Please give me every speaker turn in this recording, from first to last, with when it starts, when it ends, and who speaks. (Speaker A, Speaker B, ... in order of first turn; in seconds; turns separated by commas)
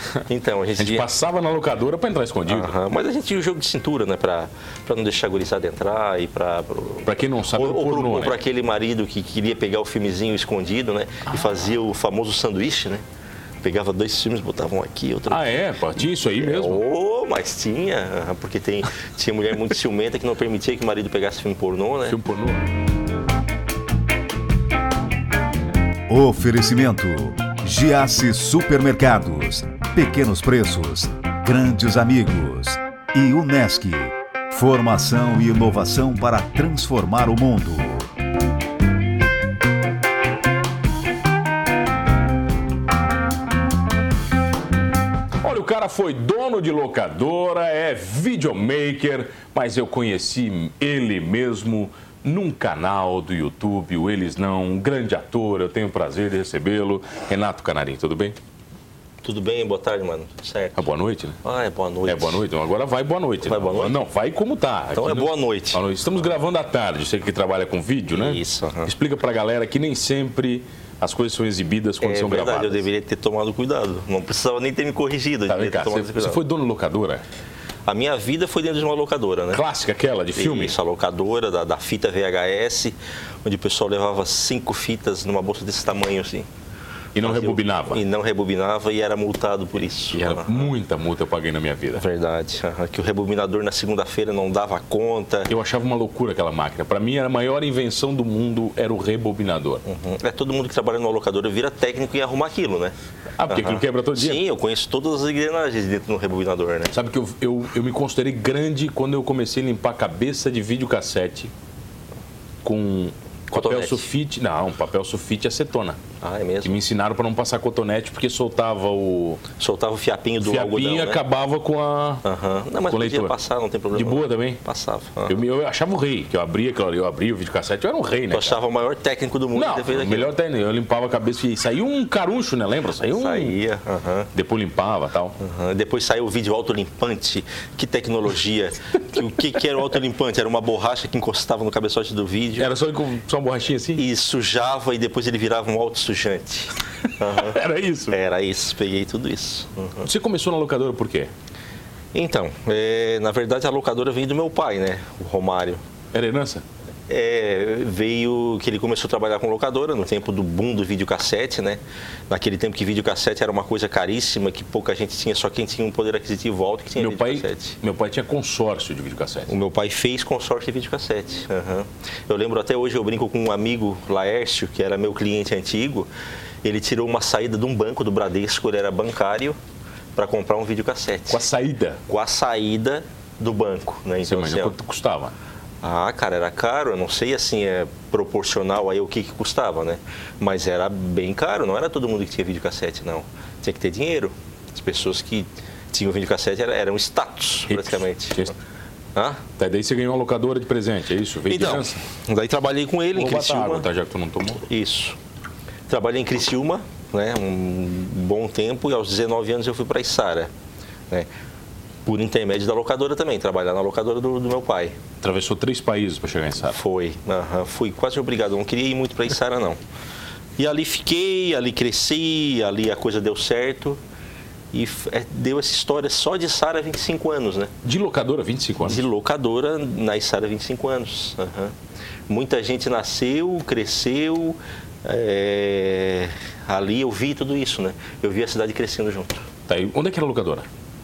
Speaker A: 0.3-1.1, Speaker B: 0.8-2.7, Speaker A: 2.5-13.0, Speaker B: 7.0-8.4, Speaker A: 13.6-15.5, Speaker B: 15.3-16.8, Speaker A: 16.4-22.2, Speaker B: 22.1-22.7, Speaker C: 26.1-38.1, Speaker B: 45.4-58.4, Speaker A: 59.2-60.9, Speaker B: 60.8-61.4, Speaker A: 61.4-62.4, Speaker B: 62.1-72.8, Speaker A: 63.4-64.0, Speaker A: 65.0-65.8, Speaker A: 68.1-68.9, Speaker A: 72.0-76.4, Speaker B: 75.5-77.2, Speaker A: 77.9-79.6, Speaker B: 79.5-80.8, Speaker A: 80.4-86.5, Speaker B: 87.2-88.0, Speaker A: 87.2-90.7, Speaker B: 90.1-92.0, Speaker A: 92.0-95.5, Speaker B: 95.5-99.8, Speaker A: 99.8-102.9, Speaker B: 103.4-104.4, Speaker A: 103.5-106.9, Speaker B: 106.9-111.5, Speaker B: 112.6-116.0, Speaker A: 113.5-114.1, Speaker A: 116.2-116.8, Speaker B: 116.6-119.4, Speaker A: 119.6-121.2, Speaker B: 120.4-122.2, Speaker A: 122.2-125.4, Speaker B: 122.9-123.3, Speaker B: 123.9-124.6, Speaker B: 125.3-128.6, Speaker A: 128.3-130.3, Speaker B: 129.5-133.6, Speaker A: 133.2-134.3, Speaker B: 134.3-135.4, Speaker A: 135.4-142.7, Speaker B: 142.6-144.0, Speaker A: 144.0-150.1, Speaker B: 147.3-148.2, Speaker B: 150.0-151.3, Speaker A: 152.1-155.8, Speaker B: 156.1-156.6, Speaker A: 157.1-167.8, Speaker B: 167.0-169.5, Speaker A: 169.5-176.1, Speaker A: 176.6-179.6, Speaker A: 180.2-181.5, Speaker B: 181.3-182.0, Speaker A: 182.1-184.8, Speaker B: 184.2-185.3, Speaker A: 185.8-198.5, Speaker B: 197.7-198.5, Speaker A: 199.2-199.4, Speaker B: 199.6-202.1, Speaker A: 201.5-203.9, Speaker B: 203.2-204.6, Speaker A: 204.6-205.2, Speaker A: 205.9-210.5, Speaker A: 212.1-215.0, Speaker B: 215.2-216.8, Speaker A: 216.7-219.8, Speaker A: 220.6-224.0, Speaker A: 224.7-227.7, Speaker B: 227.8-229.0, Speaker A: 228.8-231.7, Speaker A: 232.3-239.5, Speaker B: 239.7-240.7